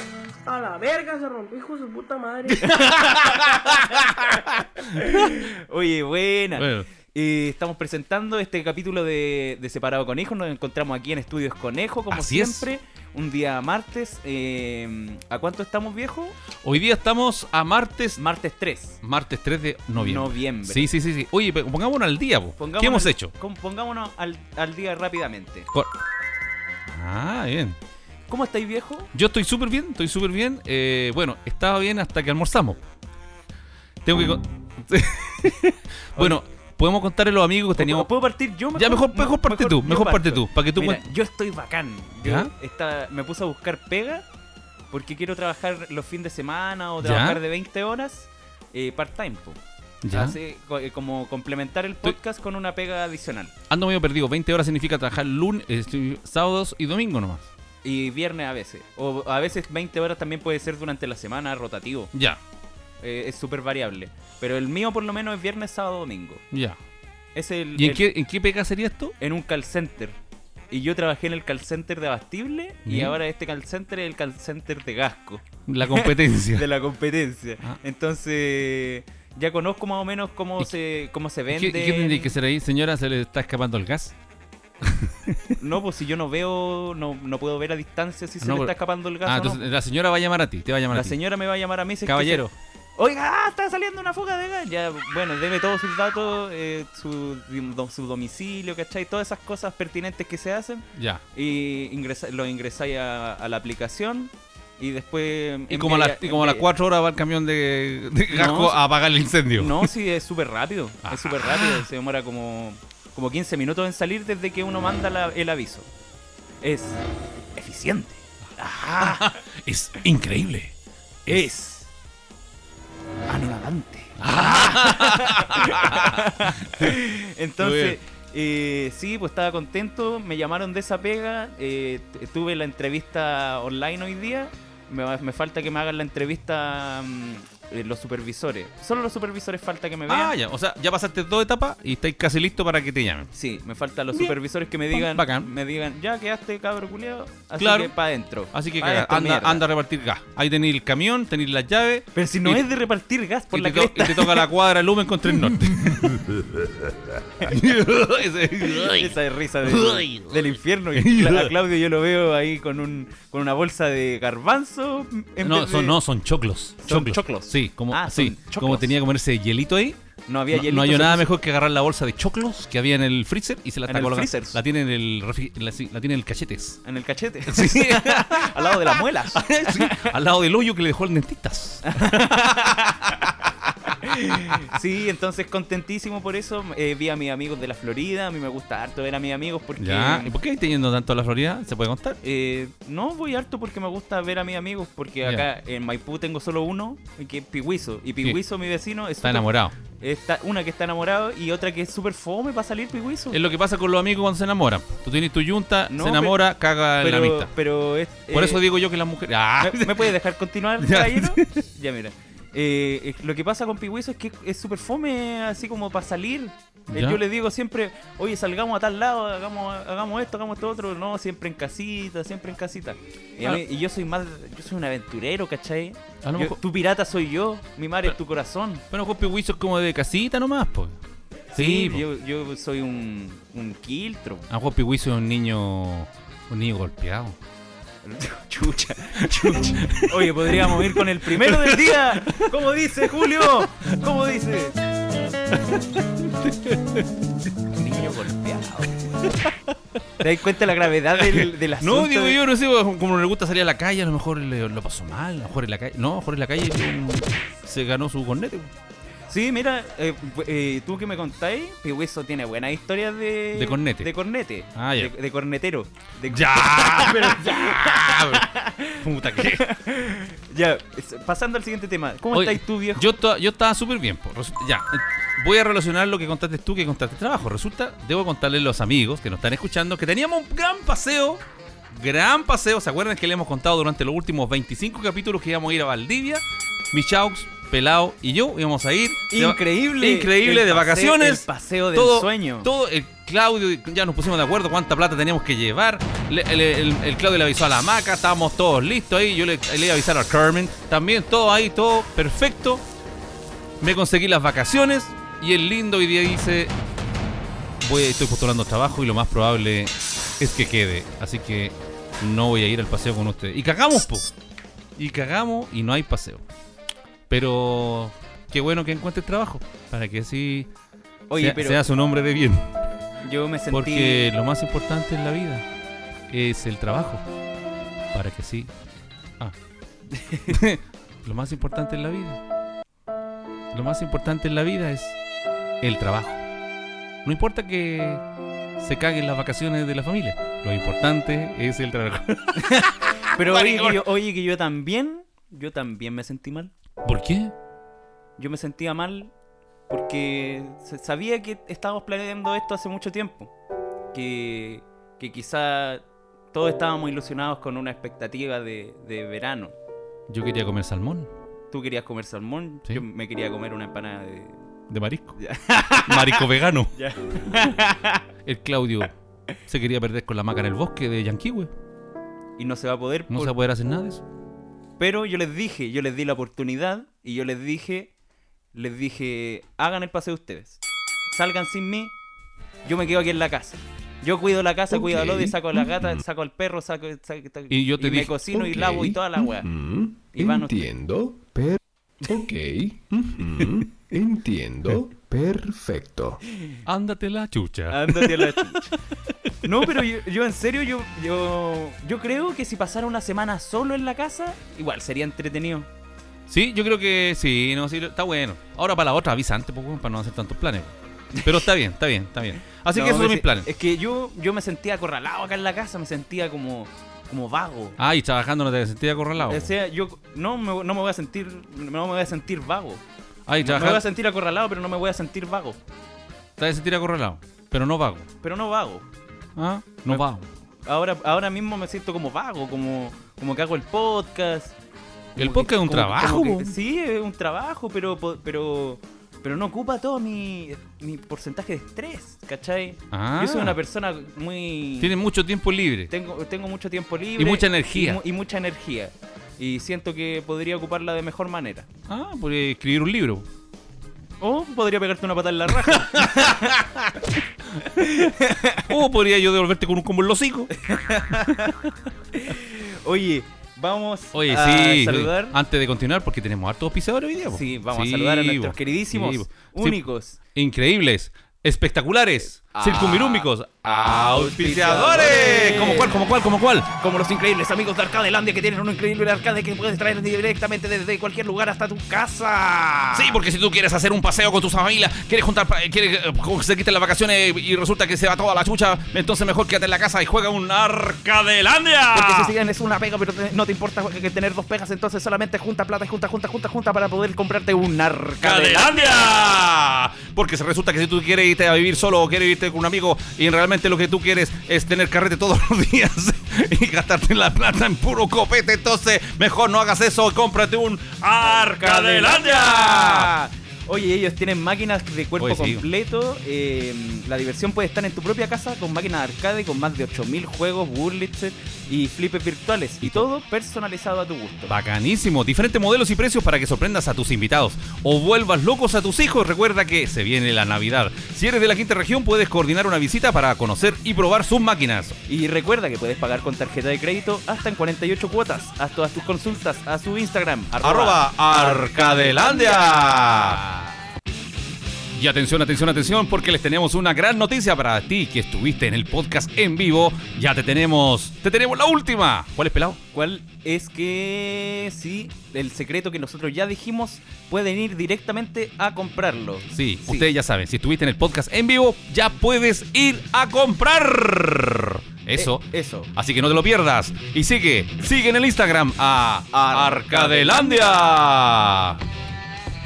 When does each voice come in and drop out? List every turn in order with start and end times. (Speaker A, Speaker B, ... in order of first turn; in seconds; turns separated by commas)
Speaker A: 0.5-3.5, Speaker B: 2.6-5.4, Speaker C: 4.9-16.4, Speaker B: 6.6-6.9, Speaker B: 12.1-12.7, Speaker B: 16.6-18.2, Speaker C: 18.2-19.0, Speaker B: 19.0-23.3, Speaker C: 19.9-20.9, Speaker C: 22.6-25.7, Speaker B: 26.9-27.8, Speaker C: 28.3-29.1, Speaker B: 29.1-32.8, Speaker B: 34.0-38.1, Speaker C: 37.8-44.2, Speaker B: 38.8-41.0, Speaker B: 42.2-42.5, Speaker C: 44.9-49.6, Speaker B: 47.0-47.4, Speaker B: 50.0-50.4, Speaker C: 50.1-53.5, Speaker B: 53.7-57.5, Speaker C: 57.8-62.1, Speaker B: 62.1-62.4, Speaker C: 63.0-66.4, Speaker B: 66.5-66.8, Speaker C: 67.3-68.0, Speaker B: 67.8-69.1, Speaker C: 69.2-70.2, Speaker C: 70.7-82.3, Speaker B: 72.8-73.2, Speaker B: 75.7-76.7, Speaker B: 81.5-84.1, Speaker B: 84.8-85.6, Speaker C: 85.6-89.6, Speaker B: 88.4-88.7, Speaker B: 89.2-91.2, Speaker C: 90.9-92.4, Speaker B: 92.0-92.5, Speaker C: 93.0-106.7, Speaker B: 101.0-101.2, Speaker B: 105.7-109.9, Speaker C: 108.3-108.8, Speaker C: 109.6-115.9, Speaker B: 111.0-111.8, Speaker C: 116.6-117.0, Speaker C: 117.6-119.3, Speaker B: 118.6-120.7, Speaker C: 121.3-121.9, Speaker C: 123.3-140.3, Speaker B: 124.2-127.0, Speaker B: 127.6-128.0, Speaker B: 140.1-143.3, Speaker C: 143.3-149.6, Speaker B: 144.9-145.5, Speaker B: 147.6-147.9, Speaker B: 148.5-152.7, Speaker C: 152.2-154.5, Speaker B: 153.5-156.2, Speaker B: 157.4-160.3, Speaker C: 158.6-166.0, Speaker B: 160.9-161.5, Speaker B: 165.4-170.0, Speaker C: 166.8-168.9, Speaker C: 170.3-171.2, Speaker B: 170.5-176.8, Speaker C: 173.9-174.6, Speaker C: 176.8-180.1, Speaker B: 177.5-183.0, Speaker C: 181.9-183.3, Speaker C: 183.9-190.3, Speaker B: 184.4-184.7, Speaker B: 189.8-192.2, Speaker C: 192.2-203.4, Speaker B: 199.2-199.8, Speaker B: 203.3-207.5, Speaker C: 205.9-206.4, Speaker C: 207.0-208.6, Speaker B: 208.3-210.1, Speaker C: 209.6-228.8, Speaker B: 210.8-211.6, Speaker B: 216.9-217.2, Speaker B: 226.2-226.6, Speaker B: 228.9-231.0, Speaker B: 231.5-232.0, Speaker C: 231.6-234.5, Speaker B: 234.5-237.4, Speaker C: 238.0-244.8, Speaker B: 239.2-242.5, Speaker B: 245.5-247.0, Speaker C: 247.7-249.0, Speaker B: 249.3-249.7, Speaker C: 250.2-252.4, Speaker B: 251.2-258.7, Speaker C: 259.3-273.1, Speaker B: 263.6-264.1, Speaker B: 264.8-265.1, Speaker B: 266.3-269.7, Speaker B: 272.3-302.8, Speaker C: 289.3-292.7, Speaker B: 303.8-306.7, Speaker B: 307.8-314.3, Speaker B: 315.0-316.4, Speaker B: 317.3-320.7, Speaker C: 321.3-321.8, Speaker B: 321.4-322.8, Speaker C: 323.2-324.3, Speaker B: 323.7-325.7, Speaker B: 326.3-327.2, Speaker B: 328.1-328.7, Speaker C: 330.1-330.6, Speaker B: 330.5-332.4, Speaker B: 333.7-335.2, Speaker B: 335.8-336.4, Speaker B: 337.2-338.2, Speaker B: 338.8-344.0, Speaker C: 342.6-346.7, Speaker B: 347.0-347.5, Speaker C: 348.4-349.3, Speaker C: 349.9-353.5, Speaker C: 354.1-359.7, Speaker B: 360.3-361.3, Speaker C: 361.7-364.6, Speaker B: 364.9-365.4, Speaker C: 365.4-368.2, Speaker B: 366.0-366.9, Speaker B: 368.4-369.1, Speaker B: 369.7-371.7, Speaker C: 372.6-373.5, Speaker B: 373.3-374.2, Speaker C: 375.0-378.1, Speaker C: 378.7-380.8, Speaker C: 381.3-382.1, Speaker C: 382.9-389.7, Speaker D: 384.9-386.2, Speaker B: 387.7-388.4, Speaker D: 388.5-396.4, Speaker C: 390.3-390.7, Speaker B: 396.9-398.8, Speaker C: 397.9-398.9, Speaker C: 399.6-405.9, Speaker B: 406.5-413.7, Speaker C: 411.4-411.7, Speaker C: 412.9-418.0, Speaker B: 418.0-419.7, Speaker C: 419.5-423.0, Speaker B: 423.5-424.0, Speaker C: 423.6-425.8, Speaker B: 426.6-428.3, Speaker C: 428.4-429.1, Speaker B: 429.6-430.5, Speaker C: 430.9-434.8, Speaker B: 435.4-436.8, Speaker C: 435.4-445.1, Speaker B: 443.1-443.8, Speaker B: 445.0-446.1, Speaker C: 446.1-451.9, Speaker B: 447.4-448.2, Speaker B: 452.1-453.5, Speaker C: 454.4-456.8, Speaker B: 455.8-457.1, Speaker B: 457.8-458.2, Speaker C: 457.9-458.9, Speaker B: 458.8-460.7, Speaker C: 460.8-461.8, Speaker C: 462.3-465.6, Speaker B: 464.3-470.0, Speaker C: 467.5-470.4, Speaker B: 470.6-476.9, Speaker C: 472.6-473.5, Speaker C: 474.0-476.3, Speaker C: 477.0-483.4, Speaker B: 483.1-492.5, Speaker C: 492.1-499.0, Speaker B: 498.4-513.3, Speaker C: 511.4-524.7, Speaker B: 515.4-515.9, Speaker B: 524.7-535.2, Speaker C: 535.3-543.9, Speaker B: 540.8-543.6, Speaker B: 545.1-553.0, Speaker C: 553.1-560.3, Speaker B: 559.7-572.0, Speaker C: 565.4-566.1, Speaker C: 569.5-570.8